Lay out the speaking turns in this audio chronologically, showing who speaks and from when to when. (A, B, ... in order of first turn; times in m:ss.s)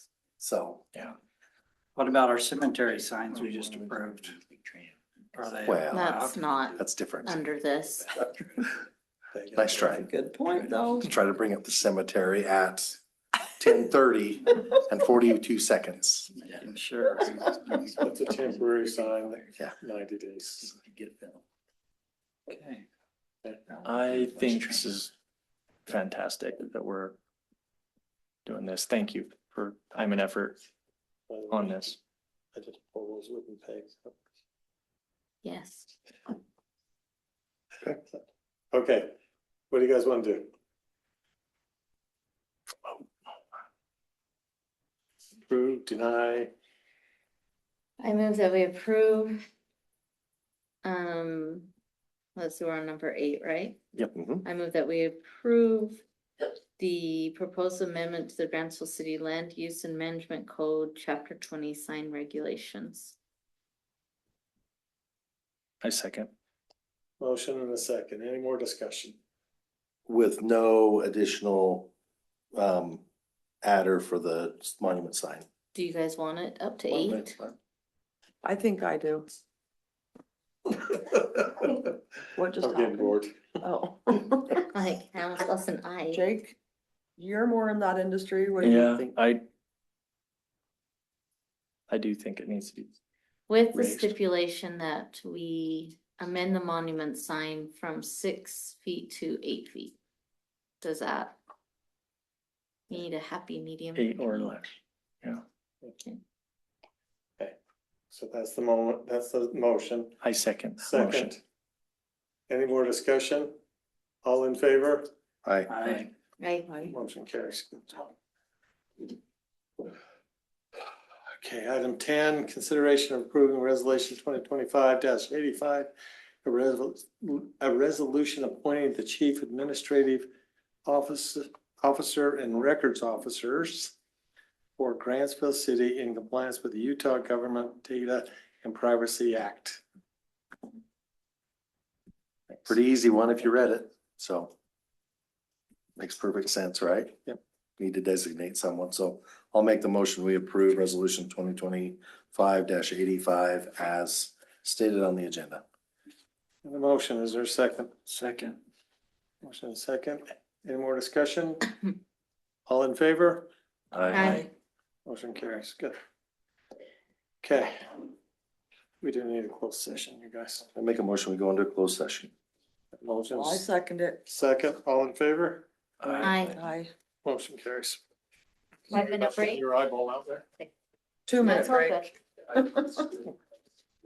0:00.4-0:00.8 A
0:02.0-0:06.5 B
0:05.6-0:06.2 A
0:05.9-0:08.2 C
0:06.8-0:07.4 A
0:09.3-0:10.0 D
0:09.6-0:10.1 A
0:09.9-0:11.1 E
0:10.9-0:13.0 A
0:13.6-0:16.3 A
0:16.4-0:18.1 B
0:18.0-0:20.7 D
0:20.8-0:21.4 B
0:22.5-0:22.8 B
0:23.8-0:25.1 F
0:23.8-0:24.6 B
0:25.9-0:27.2 F
0:28.4-0:30.6 F
0:31.3-0:31.8 D
0:31.5-0:32.0 F
0:32.5-0:34.2 D
0:35.4-0:35.9 C
0:38.7-0:39.1 D
0:39.7-0:40.5 D
0:45.5-0:46.5 D
0:48.0-0:49.4 C
0:50.8-0:51.7 C
0:52.4-0:53.8 C
0:54.0-0:54.4 A
0:54.4-0:56.0 C
0:56.8-1:03.1 C
1:05.8-1:06.3 F
1:07.2-1:09.2 D
1:10.1-1:11.9 A
1:12.5-1:13.0 A
1:13.6-1:15.4 A
1:15.7-1:17.4 C
1:16.9-1:17.6 A
1:18.4-1:19.3 E
1:22.3-1:24.6 E
1:22.6-1:23.4 D
1:24.7-1:26.2 C
1:26.1-1:26.6 E
1:27.2-1:29.1 E
1:28.6-1:29.4 F
1:31.9-1:32.9 F
1:33.5-1:40.0 C
1:33.7-1:34.1 F
1:40.8-1:41.4 C
1:42.9-1:44.6 C
1:43.9-1:45.4 F
1:48.1-1:50.2 D
1:50.2-1:51.3 F
1:50.8-1:51.4 D
1:52.5-1:53.5 D
1:54.2-1:55.1 D
1:55.4-1:56.0 A
1:55.7-1:56.1 B
1:56.4-1:56.7 C
1:56.8-1:58.1 D
2:01.4-2:05.9 D
2:06.4-2:10.3 D
2:10.8-2:13.9 D
2:14.8-2:19.8 D
2:22.7-2:24.5 A
2:26.0-2:27.2 A
2:27.8-2:35.6 A
2:36.6-2:37.9 D
2:38.1-2:38.6 B
2:39.4-2:41.7 D
2:42.6-2:43.5 D
2:43.9-2:44.4 A
2:44.1-2:44.5 C
2:44.1-2:44.5 E
2:45.0-2:45.9 D
2:47.4-2:48.0 D
2:49.0-2:50.7 D
2:50.7-2:52.3 A
2:53.0-2:53.6 D
2:53.3-2:54.2 E
2:54.2-2:55.7 D
2:56.0-2:56.6 F
2:56.2-2:56.6 C
2:56.5-2:56.9 E
2:57.2-2:58.0 D
2:58.9-3:00.4 D
2:58.9-2:59.6 C
3:01.3-3:02.0 E
3:01.4-3:02.1 C